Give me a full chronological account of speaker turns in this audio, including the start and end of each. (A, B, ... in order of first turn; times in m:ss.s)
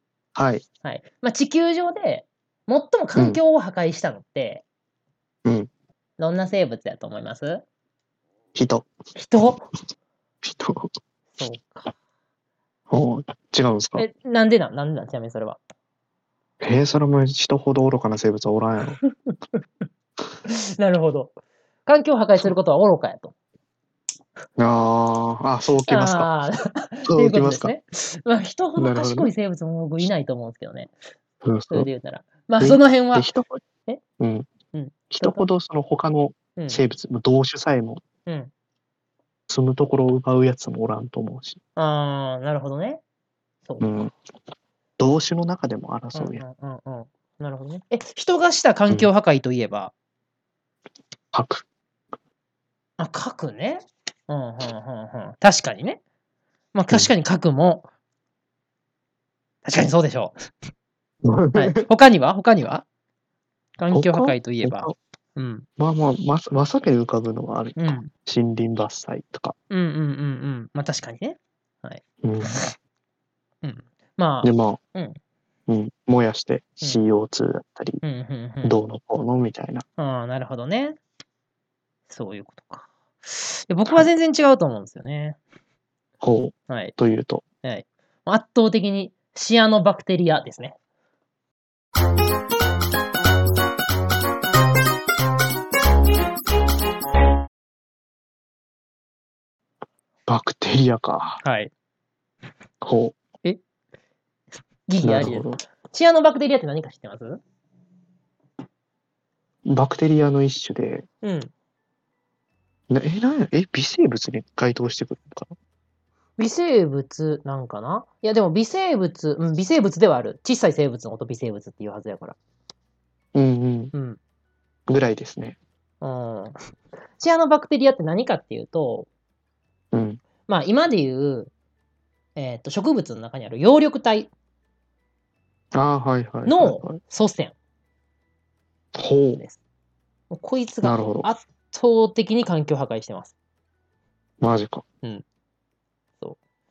0:00.4-0:00.6 A
0:00.8-0:04.6 B
0:06.2-0:07.6 B
0:08.5-0:08.9 A
0:09.2-0:09.6 B
0:10.4-0:10.9 A
0:11.4-0:11.9 B
0:12.9-0:14.0 A
0:14.0-0:15.6 B
0:16.6-0:19.0 A
0:19.0-0:19.8 B
0:20.5-0:21.4 B
0:21.9-0:23.3 B
0:24.6-0:26.3 A
0:25.8-0:30.9 B
0:27.1-0:27.7 A
0:28.8-0:29.3 A
0:31.4-0:31.9 A
0:31.7-0:33.3 B
0:32.6-0:33.6 A
0:34.2-0:34.5 A
0:34.7-0:35.4 B
0:35.1-0:38.0 A
0:38.2-0:38.5 B
0:39.5-0:41.6 A
0:41.8-0:43.0 B
0:43.6-0:44.0 B
0:43.8-0:44.1 A
0:45.0-0:46.4 A
0:46.1-0:49.9 B
0:51.3-0:51.6 A
0:53.0-0:56.0 B
0:56.7-0:57.8 B
0:59.6-1:00.5 B
1:01.2-1:01.8 A
1:01.5-1:02.8 B
1:03.8-1:05.6 B
1:03.9-1:04.9 A
1:05.8-1:09.5 A
1:07.8-1:08.1 B
1:09.7-1:12.7 B
1:12.2-1:12.6 A
1:13.6-1:15.2 B
1:14.4-1:14.8 A
1:15.7-1:18.0 A
1:18.0-1:18.8 B
1:18.6-1:19.8 A
1:20.0-1:21.0 B
1:22.1-1:25.4 B
1:26.2-1:27.4 A
1:27.6-1:30.8 B
1:40.3-1:41.4 A
1:41.4-1:41.7 B
1:42.8-1:43.2 A
1:44.9-1:47.4 B
1:45.0-1:45.6 A
1:49.7-1:51.0 A
1:51.2-1:51.5 B
1:52.9-1:55.5 A
1:56.4-2:02.4 B
2:03.3-2:03.9 A
2:03.9-2:04.2 B
2:04.9-2:05.6 A
2:06.0-2:06.6 B
2:07.2-2:09.1 B
2:09.9-2:10.2 A
2:10.5-2:11.5 B
2:12.4-2:14.3 B
2:15.7-2:17.0 A
2:16.4-2:17.5 B
2:18.9-2:19.4 A
2:20.3-2:23.3 B
2:20.8-2:21.3 A
2:24.4-2:24.8 A